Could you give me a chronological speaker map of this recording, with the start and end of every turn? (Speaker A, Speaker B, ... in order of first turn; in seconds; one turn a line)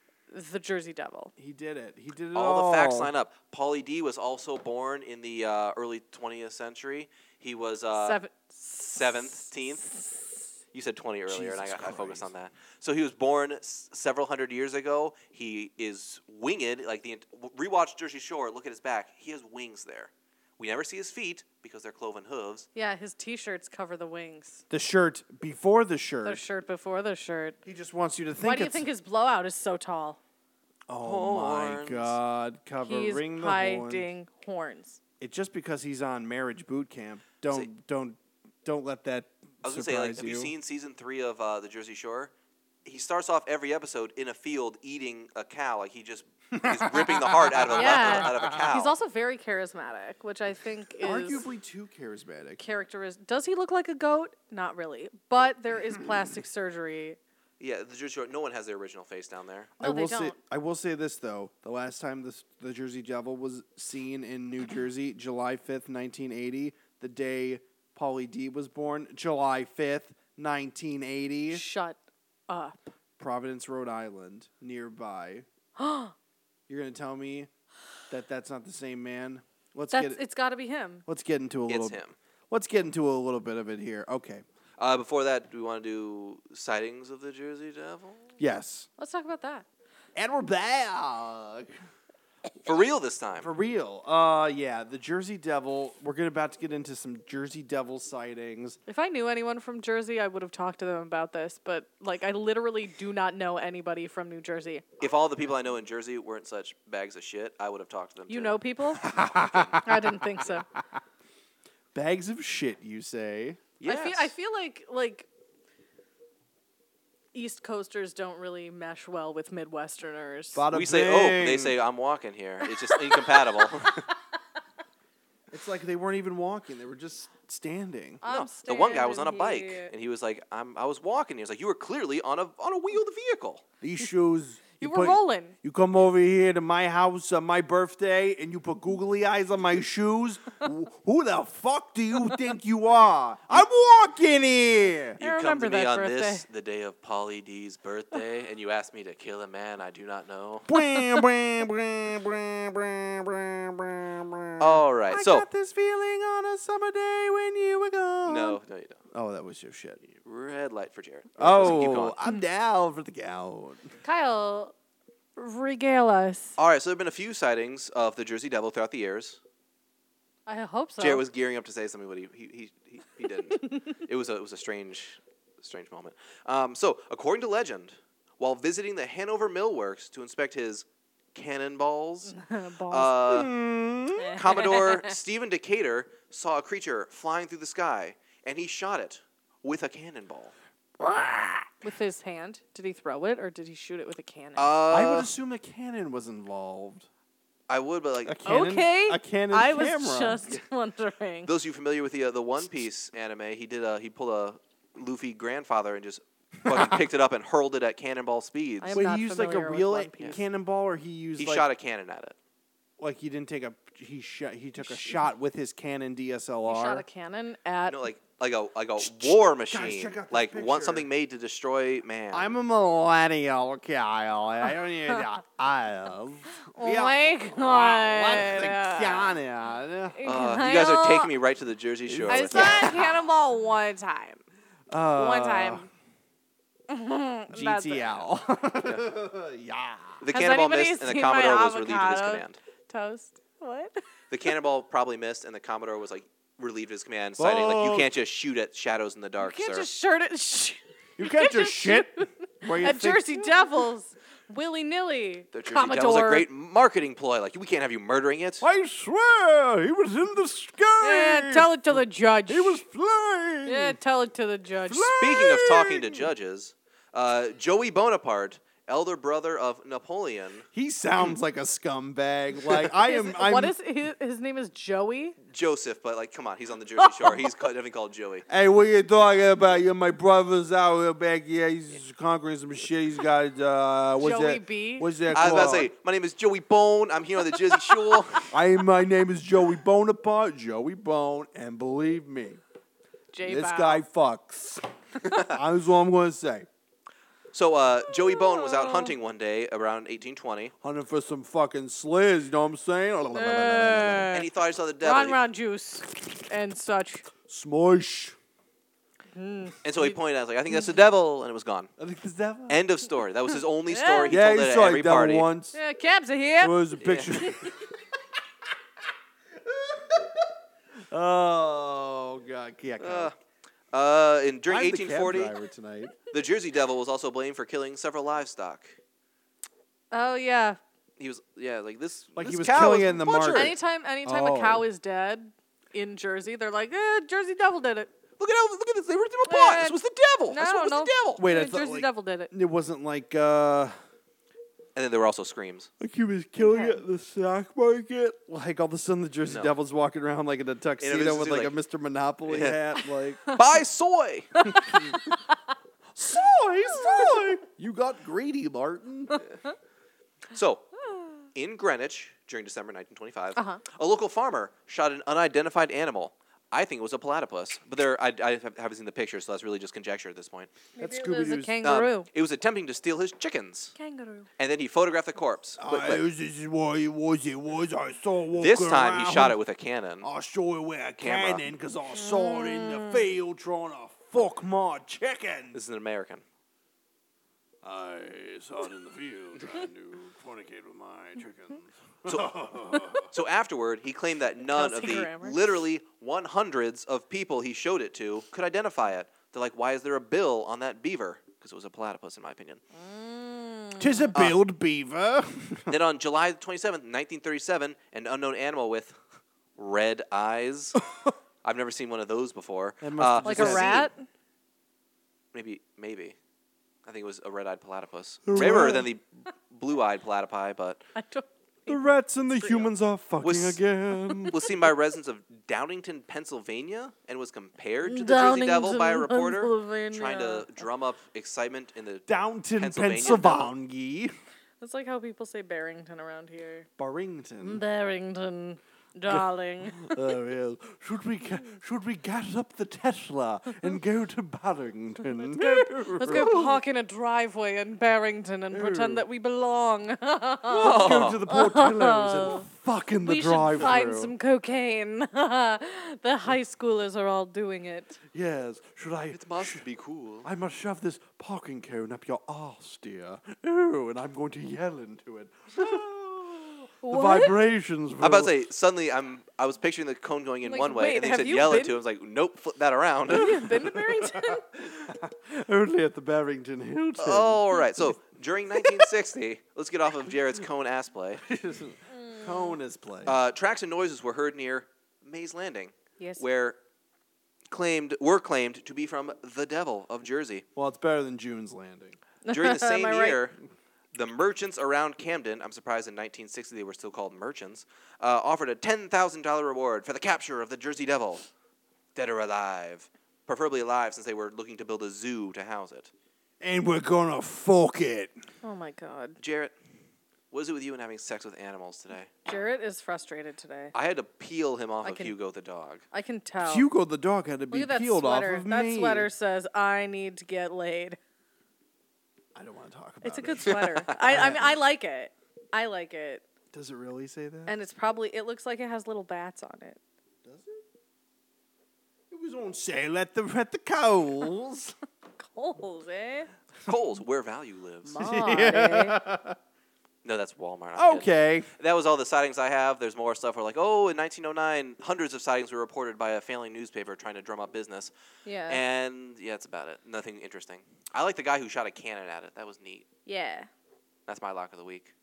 Speaker A: 0.3-1.3
Speaker B: 1.4-3.1
Speaker C: 2.3-8.2
Speaker A: 7.9-10.2
Speaker C: 8.9-9.9
Speaker C: 10.7-22.7
Speaker B: 11.3-12.3
Speaker A: 22.7-24.6
Speaker B: 24.7-26.4
Speaker A: 26.2-27.6
Speaker B: 27.6-28.9
Speaker A: 28.4-30.2
Speaker B: 30.9-34.1
Speaker C: 31.0-32.2
Speaker A: 32.8-35.0
Speaker B: 35.2-40.5
Speaker C: 39.6-42.3
Speaker C: 42.8-49.0
Speaker B: 46.5-48.7
Speaker A: 47.8-51.5
Speaker B: 51.0-52.6
Speaker A: 52.6-57.2
Speaker C: 57.6-59.7
Speaker B: 59.8-71.6
Speaker A: 59.8-60.4
Speaker A: 71.5-72.9
Speaker B: 73.2-75.5
Speaker A: 75.8-76.1
Speaker B: 76.7-77.5
Speaker B: 78.1-80.2
Speaker A: 79.9-81.0
Speaker B: 81.0-84.4
Speaker C: 81.7-82.1
Speaker C: 84.8-88.3
Speaker B: 88.4-88.9
Speaker A: 89.0-89.7
Speaker B: 90.1-91.7
Speaker C: 92.6-93.5
Speaker B: 93.4-98.8
Speaker A: 98.9-104.8
Speaker C: 105.0-108.6
Speaker A: 108.3-109.1
Speaker B: 109.0-110.1
Speaker A: 109.8-110.7
Speaker B: 111.9-113.6
Speaker C: 113.8-114.3
Speaker A: 113.8-115.3
Speaker A: 117.3-120.6
Speaker B: 120.5-121.8
Speaker C: 120.7-124.0
Speaker A: 122.9-123.7
Speaker B: 125.5-128.2
Speaker A: 128.2-129.9
Speaker C: 128.2-133.6
Speaker B: 133.8-145.2
Speaker A: 134.8-135.6
Speaker A: 145.2-146.4
Speaker C: 145.2-150.7
Speaker B: 150.7-158.6
Speaker C: 154.6-155.4
Speaker C: 158.2-159.0
Speaker B: 159.1-160.0
Speaker C: 160.0-162.2
Speaker B: 161.4-163.9
Speaker A: 164.0-164.7
Speaker A: 165.3-166.6
Speaker C: 166.6-169.4
Speaker A: 170.4-171.2
Speaker C: 171.0-182.3
Speaker A: 182.2-183.1
Speaker C: 182.9-183.5
Speaker B: 183.2-184.4
Speaker A: 184.2-185.1
Speaker C: 184.3-190.5
Speaker B: 191.0-191.7
Speaker A: 191.8-194.8
Speaker C: 194.6-195.3
Speaker B: 194.9-197.1
Speaker C: 197.7-198.4
Speaker B: 198.2-200.5
Speaker A: 198.4-201.5
Speaker C: 201.4-208.9
Speaker B: 206.7-207.0
Speaker A: 208.8-210.4
Speaker B: 208.9-211.7
Speaker C: 211.4-212.3
Speaker B: 213.0-217.0
Speaker A: 214.8-215.2
Speaker A: 216.7-218.1
Speaker C: 217.9-222.5
Speaker B: 219.0-221.1
Speaker B: 222.3-230.2
Speaker A: 226.7-229.4
Speaker A: 230.1-231.3
Speaker C: 230.2-233.0
Speaker B: 232.1-233.2
Speaker A: 232.3-234.4
Speaker B: 234.9-235.9
Speaker A: 235.1-235.9
Speaker A: 236.9-238.2
Speaker B: 237.5-240.2
Speaker C: 240.2-242.6
Speaker A: 240.3-244.0
Speaker C: 244.3-249.9
Speaker B: 247.4-248.1
Speaker A: 249.4-256.5
Speaker B: 251.2-253.6
Speaker C: 255.5-258.6
Speaker B: 258.6-264.0
Speaker A: 261.0-262.8
Speaker A: 263.6-265.2
Speaker B: 264.9-266.2
Speaker C: 265.1-270.6
Speaker B: 270.7-273.7
Speaker A: 273.0-275.4
Speaker C: 275.5-278.4
Speaker B: 278.5-285.9
Speaker A: 284.2-285.3
Speaker C: 285.3-288.5
Speaker B: 288.5-292.6
Speaker A: 293.3-294.0
Speaker B: 293.4-296.7
Speaker C: 297.5-300.7
Speaker A: 298.1-299.1
Speaker B: 300.8-304.3
Speaker A: 303.3-304.5
Speaker C: 304.3-305.4
Speaker A: 305.0-307.3
Speaker B: 307.4-308.4
Speaker A: 309.3-310.1
Speaker C: 309.8-311.9
Speaker B: 312.0-312.8
Speaker C: 312.7-315.5
Speaker A: 313.9-314.4
Speaker B: 314.2-315.8
Speaker A: 315.7-316.8
Speaker B: 316.6-317.8
Speaker C: 317.0-317.4
Speaker B: 319.6-320.5
Speaker B: 321.1-323.3
Speaker C: 323.0-323.4
Speaker C: 323.9-325.5
Speaker B: 324.7-326.2
Speaker C: 326.3-329.0
Speaker A: 330.1-330.8
Speaker C: 331.2-333.7
Speaker B: 332.4-334.9
Speaker A: 333.5-338.1
Speaker C: 338.4-341.4
Speaker A: 339.4-340.0
Speaker A: 340.5-342.5
Speaker B: 341.4-343.9
Speaker C: 344.9-345.9
Speaker B: 346.0-353.4
Speaker A: 346.6-347.0
Speaker C: 351.0-351.8
Speaker C: 352.5-352.8
Speaker C: 353.5-354.7
Speaker B: 354.8-355.1
Speaker B: 356.1-359.4
Speaker C: 360.5-360.9
Speaker C: 361.5-370.7
Speaker A: 363.6-363.8
Speaker A: 371.0-372.3
Speaker B: 371.0-371.8
Speaker C: 371.8-373.9
Speaker A: 373.9-374.5
Speaker C: 374.6-376.2
Speaker B: 375.8-379.6
Speaker C: 378.6-380.3
Speaker B: 380.2-385.8
Speaker C: 381.2-381.6
Speaker A: 382.2-383.2
Speaker C: 385.7-386.4
Speaker B: 387.8-393.3
Speaker C: 392.3-392.5
Speaker C: 393.1-402.8
Speaker A: 394.7-395.6
Speaker A: 402.9-404.3
Speaker B: 404.0-405.9
Speaker C: 405.9-409.1
Speaker C: 409.8-411.0
Speaker C: 411.6-414.0
Speaker B: 413.0-414.1
Speaker A: 413.4-414.2
Speaker C: 415.5-416.4
Speaker C: 417.0-421.0
Speaker B: 418.5-419.1
Speaker A: 421.1-422.9
Speaker B: 421.9-424.6
Speaker C: 423.4-423.8
Speaker C: 424.4-433.7
Speaker A: 428.0-430.8
Speaker B: 432.3-434.3
Speaker A: 434.8-436.9
Speaker B: 437.0-437.8
Speaker A: 437.6-440.2
Speaker B: 439.3-446.8
Speaker A: 445.3-452.6
Speaker B: 448.7-449.2
Speaker B: 450.6-454.3
Speaker C: 450.8-451.4
Speaker A: 453.2-458.2
Speaker B: 458.3-459.8
Speaker C: 459.3-460.5
Speaker B: 460.4-468.6
Speaker A: 467.0-467.6
Speaker C: 468.2-473.6
Speaker A: 470.6-472.0
Speaker A: 473.3-474.6
Speaker B: 473.5-478.1
Speaker C: 477.2-481.4
Speaker B: 481.4-483.4
Speaker A: 482.1-482.7
Speaker C: 483.2-486.8
Speaker A: 486.2-486.4
Speaker C: 487.7-490.6
Speaker B: 490.8-492.2
Speaker A: 492.4-493.4
Speaker C: 492.5-493.6
Speaker C: 494.1-501.4
Speaker C: 502.1-506.1
Speaker B: 506.6-508.3
Speaker A: 508.6-509.4
Speaker C: 509.4-509.7
Speaker C: 510.5-512.3
Speaker A: 512.4-513.9
Speaker C: 513.9-516.0
Speaker A: 515.0-515.3
Speaker A: 516.1-516.9
Speaker B: 516.6-519.3
Speaker A: 517.7-521.2
Speaker B: 522.5-524.7
Speaker A: 523.2-526.4
Speaker C: 523.7-524.4
Speaker B: 526.7-527.7
Speaker A: 527.7-530.0
Speaker B: 530.4-530.8
Speaker B: 532.3-535.0
Speaker A: 535.4-536.5
Speaker C: 536.9-538.2
Speaker A: 538.0-539.2
Speaker B: 538.2-539.6
Speaker C: 540.2-548.1
Speaker B: 540.9-541.7
Speaker A: 548.4-548.8
Speaker C: 548.7-553.0
Speaker A: 553.2-553.7
Speaker C: 554.3-555.1